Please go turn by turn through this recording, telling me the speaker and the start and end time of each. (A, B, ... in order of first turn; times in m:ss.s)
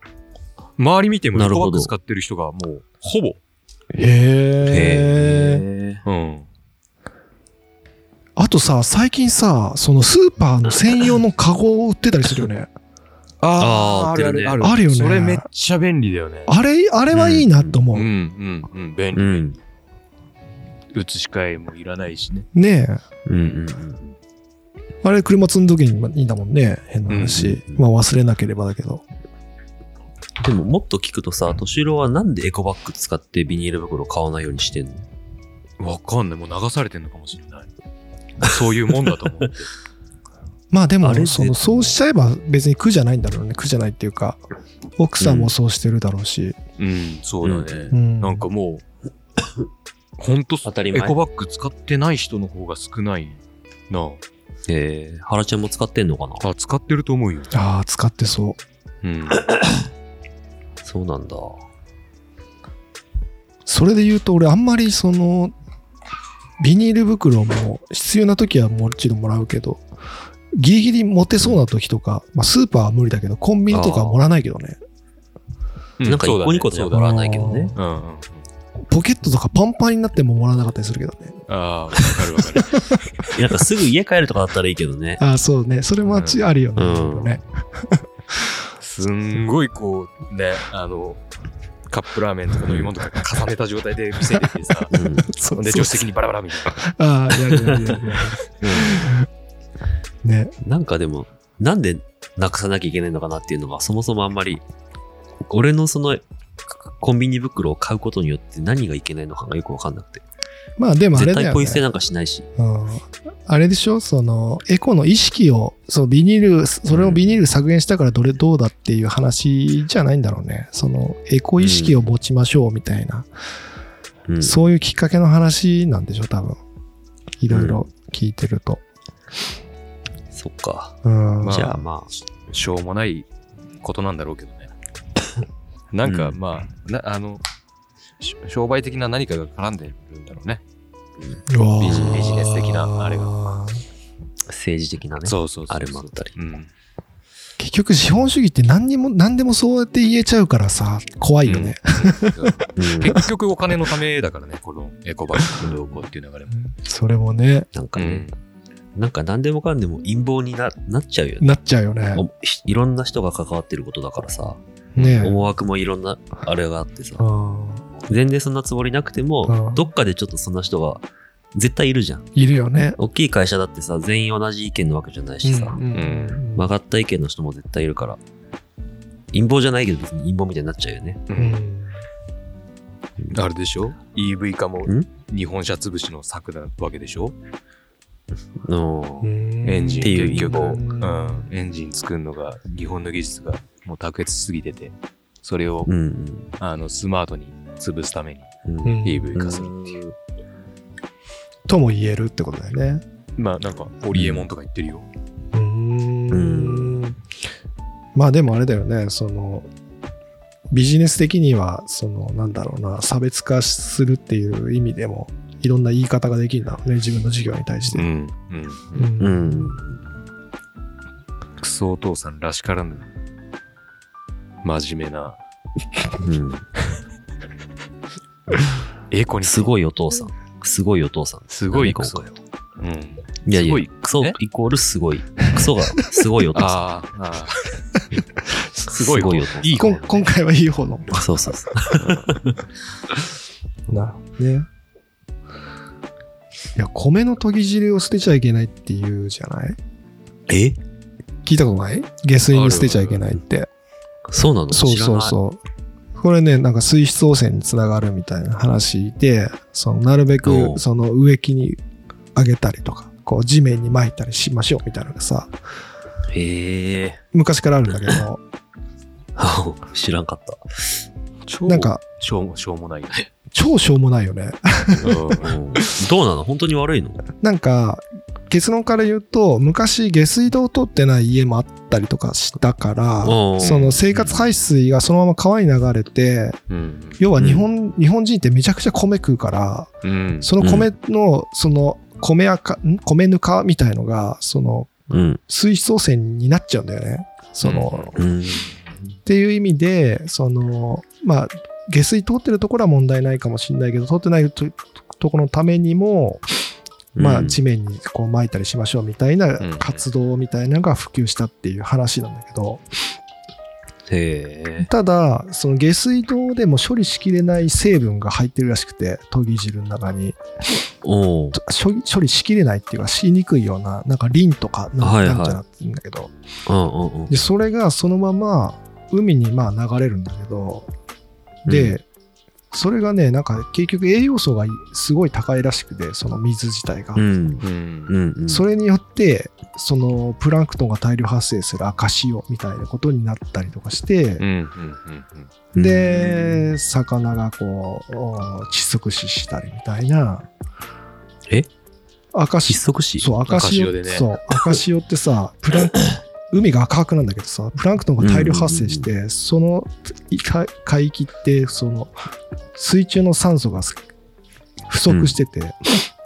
0:00.8-0:03.4 A
0:01.3-0:01.9 B
0:03.9-0:05.6 C
0:04.6-0:06.0 B
0:06.0-0:06.5 A
0:08.4-0:12.7 C
0:13.4-0:16.5 A
0:13.6-0:14.6 B
0:14.6-0:15.4 C
0:16.5-0:18.1 C
0:17.1-0:17.8 B
0:17.9-0:19.5 A
0:19.1-0:19.6 B
0:20.9-0:22.5 A
0:22.5-0:23.0 C
0:23.2-0:24.1 B
0:25.0-0:29.0 C
0:27.1-0:27.4 A
0:27.2-0:27.8 B
0:30.4-0:35.1 B
0:35.8-0:37.7 A
0:38.4-0:39.7 A
0:40.7-0:44.4 C
0:41.0-0:42.0 B
0:45.0-0:46.6 C
0:45.2-0:45.5 B
0:46.8-0:48.8 A
0:47.4-0:47.9 B
0:47.9-0:48.4 C
0:50.2-0:54.2 A
0:50.6-0:51.2 B
0:54.7-0:56.4 B
0:56.4-0:57.5 A
0:57.5-0:58.6 C
0:59.0-0:59.4 A
1:00.8-1:01.6 B
1:03.6-1:05.5 C
1:06.6-1:09.8 C
1:10.5-1:14.8 C
1:13.7-1:14.2 B
1:16.0-1:18.4 A
1:16.0-1:17.7 B
1:16.9-1:17.8 C
1:18.9-1:21.4 C
1:21.5-1:22.8 A
1:22.0-1:23.3 C
1:23.3-1:25.2 B
1:25.2-1:28.0 C
1:26.0-1:26.4 A
1:26.8-1:27.4 B
1:28.8-1:31.2 A
1:31.9-1:34.9 A
1:32.7-1:32.9 B
1:34.9-1:35.3 B
1:34.9-1:36.0 C
1:35.6-1:36.8 A
1:36.8-1:39.2 C
1:37.7-1:38.0 B
1:38.6-1:39.1 B
1:40.2-1:40.5 C
1:40.6-1:44.6 B
1:45.5-1:50.2 B
1:50.8-1:51.8 C
1:51.1-1:52.5 B
1:52.6-2:03.3 C
1:56.9-1:57.4 B
2:01.6-2:02.1 B
2:04.3-2:04.6 B
2:04.4-2:06.6 C
2:07.4-2:08.8 C
2:07.5-2:07.8 B
2:10.3-2:12.1 B
2:11.0-2:11.8 C
2:11.4-2:11.8 A
2:12.5-2:13.3 A
2:13.8-2:14.7 A
2:15.9-2:17.4 A
2:16.0-2:16.4 B
2:18.2-2:20.6 A
2:21.2-2:22.4 B
2:21.5-2:23.8 C
2:21.8-2:23.4 A
2:24.5-2:26.3 B
2:25.2-2:26.7 A
2:27.6-2:32.5 C
2:31.4-2:36.7 A
2:32.8-2:33.2 B
2:36.7-2:37.7 C
2:37.7-2:38.2 B
2:38.0-2:38.3 A
2:38.9-2:41.5 B
2:41.4-2:42.2 C
2:42.1-2:47.2 B
2:45.0-2:45.4 C
2:47.2-2:47.8 C
2:48.0-2:52.3 B
2:49.4-2:49.8 C
2:52.3-2:53.0 C
2:53.0-2:55.8 B
2:55.4-2:56.7 C
2:55.9-2:56.4 A
2:56.5-2:58.2 B
2:59.3-3:01.2 B
3:01.3-3:01.6 A
3:01.4-3:02.0 C
3:03.3-3:07.4 A
3:08.6-3:09.3 B
3:09.2-3:11.5 C
3:09.6-3:15.9 A
3:10.0-3:10.8 B
3:15.8-3:16.5 B
3:16.6-3:18.5 A
3:18.6-3:20.1 B
3:18.8-3:19.3 C
3:19.0-3:20.0 A
3:21.7-3:23.0 C
3:23.4-3:25.1 A
3:24.1-3:24.5 B
3:25.5-3:27.2 C
3:26.3-3:27.0 B
3:28.1-3:29.7 C
3:30.7-3:38.1 C
3:37.9-3:39.1 A
3:38.9-3:39.8 C
3:39.2-3:40.0 B
3:41.6-3:43.1 A
3:44.6-3:45.4 A
3:46.2-3:46.7 B
3:49.1-3:49.7 A
3:49.4-3:52.3 B
3:51.5-3:54.4 A
3:53.4-3:56.8 B
3:56.5-3:57.7 A
3:58.5-3:58.9 C
3:58.9-4:00.2 A
3:58.9-4:00.3 B
3:59.7-4:01.2 C
4:01.1-4:02.6 B
4:02.0-4:02.3 A
4:03.9-4:04.7 C
4:06.8-4:09.8 C
4:10.5-4:10.8 B
4:11.4-4:13.7 C
4:12.5-4:13.3 A
4:14.3-4:15.4 B
4:14.7-4:15.6 C
4:16.2-4:21.8 C
4:20.4-4:20.8 B
4:22.3-4:25.5 C
4:26.3-4:27.2 B
4:27.3-4:28.4 C
4:29.4-4:31.0 B
4:31.5-4:33.3 A
4:31.7-4:32.0 C
4:33.5-4:35.3 C
4:35.0-4:35.5 A
4:35.4-4:37.2 B
4:37.4-4:46.6 C
4:43.2-4:44.4 B
4:46.7-4:47.2 A
4:47.2-4:49.9 C
4:47.4-4:47.7 B
4:50.0-4:50.5 A
4:50.4-4:55.0 C
4:50.6-4:50.9 B
4:55.1-4:55.4 B
4:55.5-4:58.2 C
4:57.6-4:58.2 A
4:58.2-4:58.7 B
4:59.2-5:06.4 C
5:07.1-5:07.6 B
5:07.2-5:12.8 C
5:09.6-5:10.0 A
5:14.1-5:14.9 B
5:14.8-5:20.4 C
5:21.0-5:21.6 B
5:21.5-5:26.3 C
5:25.0-5:25.6 B
5:26.7-5:27.3 B
5:27.3-5:30.9 C
5:31.6-5:32.0 B
5:31.7-5:32.0 C
5:32.7-5:37.2 C
5:37.1-5:38.6 B
5:37.6-5:38.1 A
5:38.5-5:44.4 C
5:44.4-5:45.5 A
5:45.7-5:46.7 B
5:45.8-5:50.5 C
5:52.3-6:02.1 C
5:52.7-5:53.3 B
5:53.5-5:54.3 A
5:58.2-5:59.1 B
6:02.7-6:04.0 C
6:04.9-6:05.8 C
6:05.1-6:05.4 B